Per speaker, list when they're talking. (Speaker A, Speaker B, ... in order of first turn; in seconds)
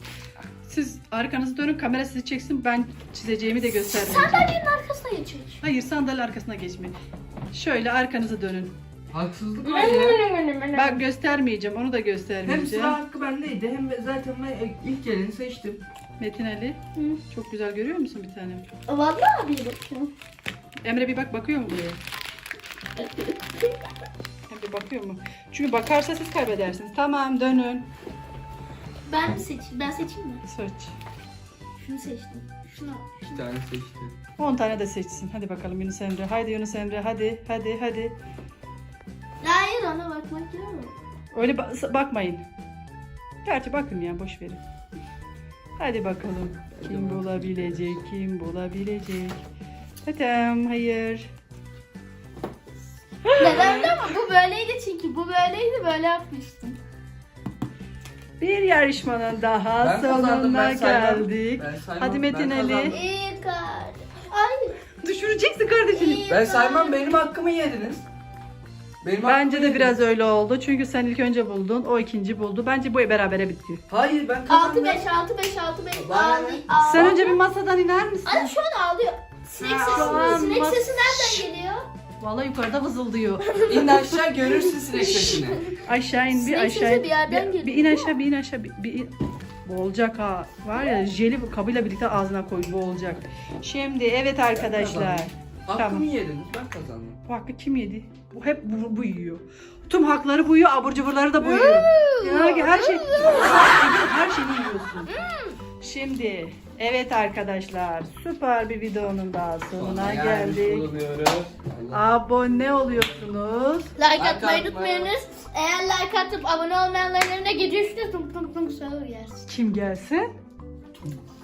Speaker A: 0.6-4.5, 5.6-7.0, 7.5-8.7, 9.8-10.1, 10.7-13.0, 16.2-18.7, 20.8-22.0, 24.5-27.9, 30.4-30.9, 34.4-38.2, 41.3-42.4, 43.4-44.6, 45.8-49.4, 50.0-51.3, 53.2-53.6, 58.4-63.0, 65.0-66.2, 69.2-73.8, 76.8-78.5, 79.6-81.5, 82.2-83.6, 85.8-89.1, 89.7-96.1, 97.3-105.2, 105.8-110.9, 111.9-113.9, 119.5-120.3
Speaker B: 3.9-5.6, 9.6-11.0, 17.0-17.2, 18.9-20.1, 23.0-23.8, 29.1-30.4, 31.8-33.4, 39.4-41.0, 53.4-56.8, 62.9-64.8, 65.9-67.1, 74.5-77.4, 78.2-81.9, 83.5-85.8, 86.3-88.2, 101.4-103.7, 105.1-105.6, 114.0-119.5
Speaker C: 9.1-10.2, 12.4-15.8, 33.2-34.1, 46.7-48.0, 53.4-54.0, 59.8-63.0, 66.3-68.0, 69.0-70.0, 73.9-75.0, 75.9-77.2, 79.9-80.3, 83.7-85.7, 94.5-97.2, 109.7-112.0, 114.2-115.1, 121.0-121.2